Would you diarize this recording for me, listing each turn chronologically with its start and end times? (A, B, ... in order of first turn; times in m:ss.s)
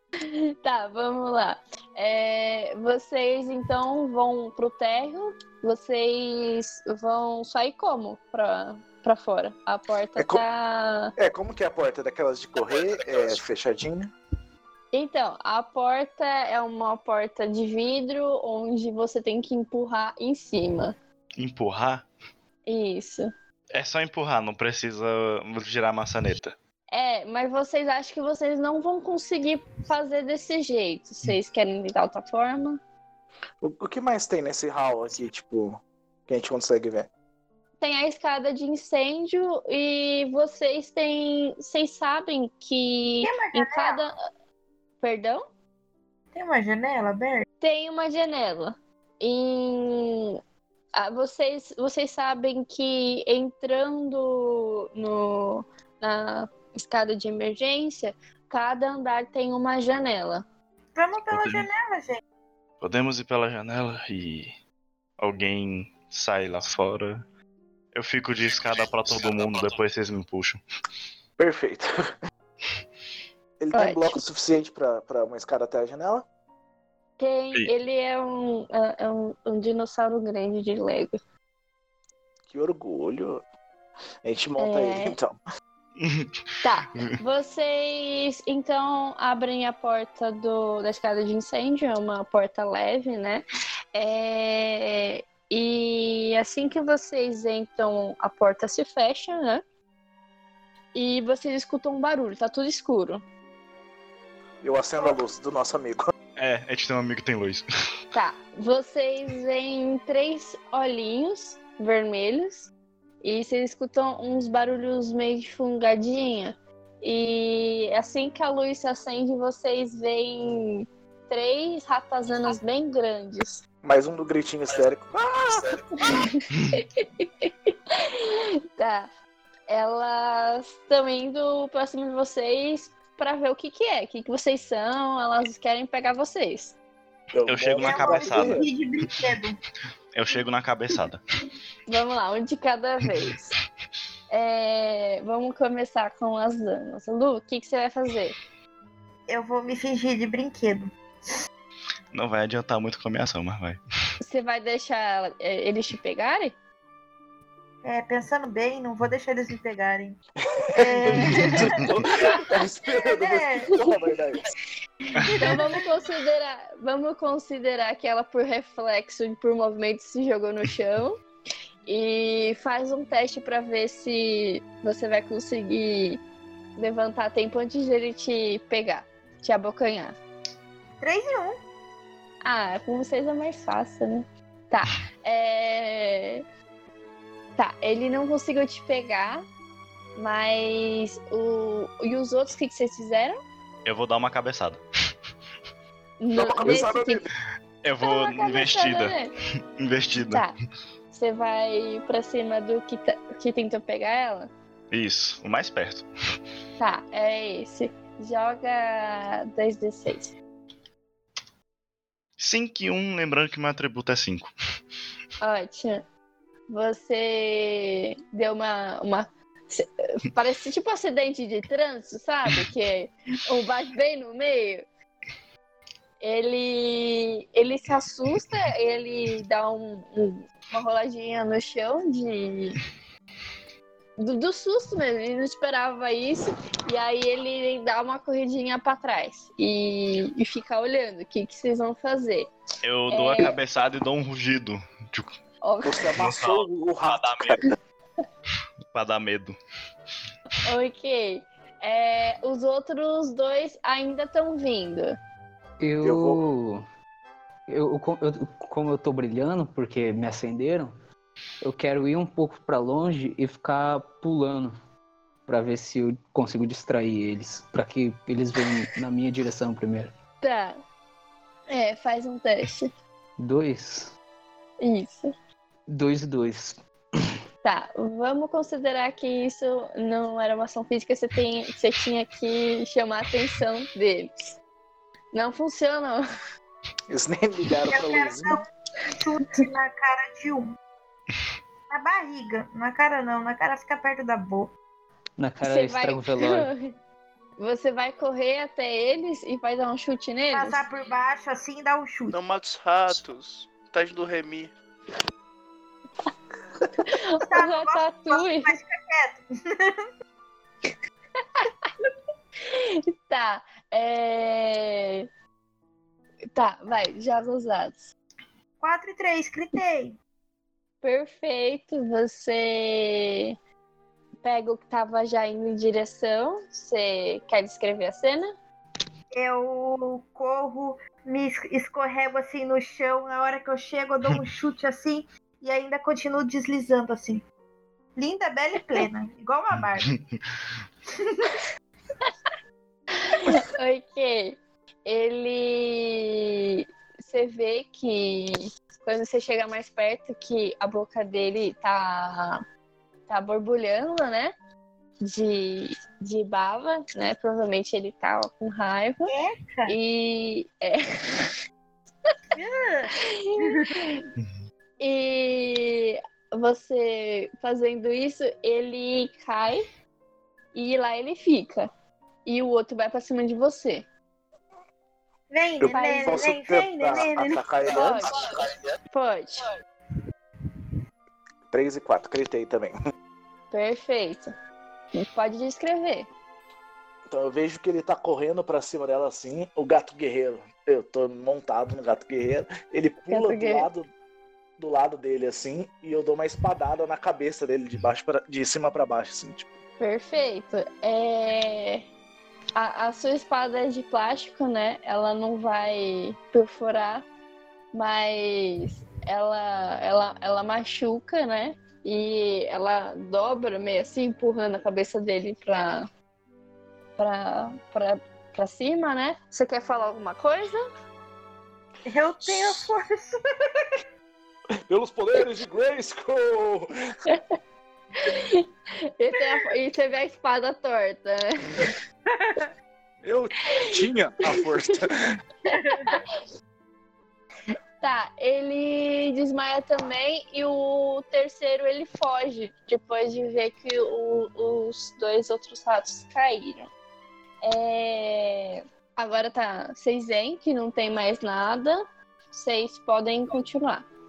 0:00.2-0:11.1 A
0:10.2-0:10.4 B
0:11.2-0:14.1 B
0:14.9-0:21.0 A
0:21.4-0:22.1 C
0:22.7-0:23.3 A
0:23.7-0:26.6 C
0:26.9-0:32.8 A
0:33.6-0:37.1 B
0:37.8-0:44.1 A
0:43.2-0:44.0 D
0:45.0-0:45.4 A
0:46.3-0:47.4 D
0:47.6-0:50.4 A
0:51.0-1:00.4 A
1:01.0-1:02.2 D
1:01.3-1:01.7 C
1:02.8-1:04.5 C
1:05.2-1:07.2 C
1:07.9-1:10.6 C
1:11.4-1:11.9 B
1:13.6-1:16.3 B
1:13.7-1:14.2 A
1:17.2-1:21.2 A
1:22.5-1:23.4 B
1:24.2-1:25.4 B
1:24.6-1:25.2 A
1:26.0-1:26.4 C
1:26.6-1:33.4 A
1:34.0-1:39.6 A
1:41.0-1:43.2 A
1:44.6-1:46.1 B
1:46.4-1:47.6 C
1:48.1-1:52.7 A
1:53.2-2:03.6 A
2:03.8-2:05.8 B
2:06.0-2:09.1 A
2:09.7-2:16.8 A
2:17.3-2:18.7 B
2:17.5-2:18.6 C
2:17.8-2:19.6 D
2:20.1-2:21.2 C
2:21.9-2:23.5 A
2:24.3-2:28.4 A
2:29.3-2:30.9 D
2:32.1-2:33.8 C
2:34.2-2:36.5 A
2:37.8-2:40.2 D
2:40.6-2:44.4 B
2:40.8-2:43.9 D
2:45.2-2:45.8 D
2:45.4-2:51.2 A
2:51.9-2:56.2 A
2:56.8-3:00.2 A
3:01.0-3:01.6 D
3:02.4-3:06.4 A
3:07.6-3:09.4 A
3:10.2-3:13.4 A
3:13.8-3:14.8 C
3:16.2-3:17.2 A
3:16.4-3:17.3 B
3:17.8-3:19.2 C
3:18.0-3:19.3 A
3:19.8-3:20.4 C
3:20.2-3:20.5 A
3:21.1-3:24.5 A
3:24.9-3:26.1 C
3:26.8-3:30.3 A
3:32.4-3:34.5 C
3:35.4-3:36.0 A
3:36.7-3:44.9 A
3:46.2-3:52.8 A
3:54.2-4:02.5 A
4:02.8-4:05.3 C
4:03.1-4:03.5 A
4:05.6-4:06.1 A
4:05.8-4:07.7 B
4:06.2-4:07.6 C
4:08.9-4:09.6 C
4:10.6-4:15.2 A
4:15.8-4:16.8 E
4:16.0-4:16.4 B
4:17.7-4:20.9 E
4:21.6-4:24.7 E
4:25.5-4:30.1 E
4:30.4-4:30.8 A
4:31.7-4:32.9 A
4:33.4-4:34.1 E
4:34.8-4:35.3 A
4:35.9-4:36.8 E
4:37.6-4:44.6 A
4:45.3-4:46.2 A
4:47.1-4:48.6 B
4:47.9-4:50.8 D
4:51.9-4:54.7 D
4:55.4-4:56.7 E
4:55.6-4:56.9 A
4:57.6-5:00.8 A
5:00.5-5:02.4 D
5:02.3-5:04.7 F
5:07.0-5:08.7 A
5:07.4-5:10.1 D
5:11.6-5:11.9 A
5:12.7-5:15.3 A
5:16.6-5:18.1 A
5:18.8-5:20.2 D
5:21.0-5:23.5 A
5:24.4-5:28.5 A
5:29.3-5:37.4 D
5:38.2-5:40.1 D
5:41.1-5:41.6 D
5:43.2-5:52.6 A
5:53.3-5:54.5 A
5:55.2-5:59.3 A
5:59.3-5:59.9 D
5:59.9-6:01.5 A
6:02.6-6:04.0 D
6:03.2-6:04.3 A
6:05.0-6:09.8 A
6:10.8-6:11.9 A
6:12.5-6:14.1 A
6:15.5-6:18.2 D
6:15.8-6:18.5 B
6:15.9-6:16.4 A
6:17.9-6:18.4 A
6:19.1-6:19.7 A
6:21.7-6:22.9 B
6:23.7-6:24.5 A
6:25.2-6:26.3 A
6:27.3-6:34.1 B
6:33.3-6:33.9 A
6:34.8-6:39.7 B
6:40.0-6:42.0 A
6:42.8-6:47.2 A
6:47.9-6:56.1 A
6:57.2-7:00.8 A
7:02.1-7:03.9 D
7:04.9-7:06.9 B
7:08.2-7:08.7 A
7:09.2-7:11.9 A
7:12.3-7:12.7 D
7:13.2-7:15.4 B
7:15.7-7:16.1 D
7:15.7-7:16.3 A
7:18.0-7:26.9 A
7:27.6-7:34.1 A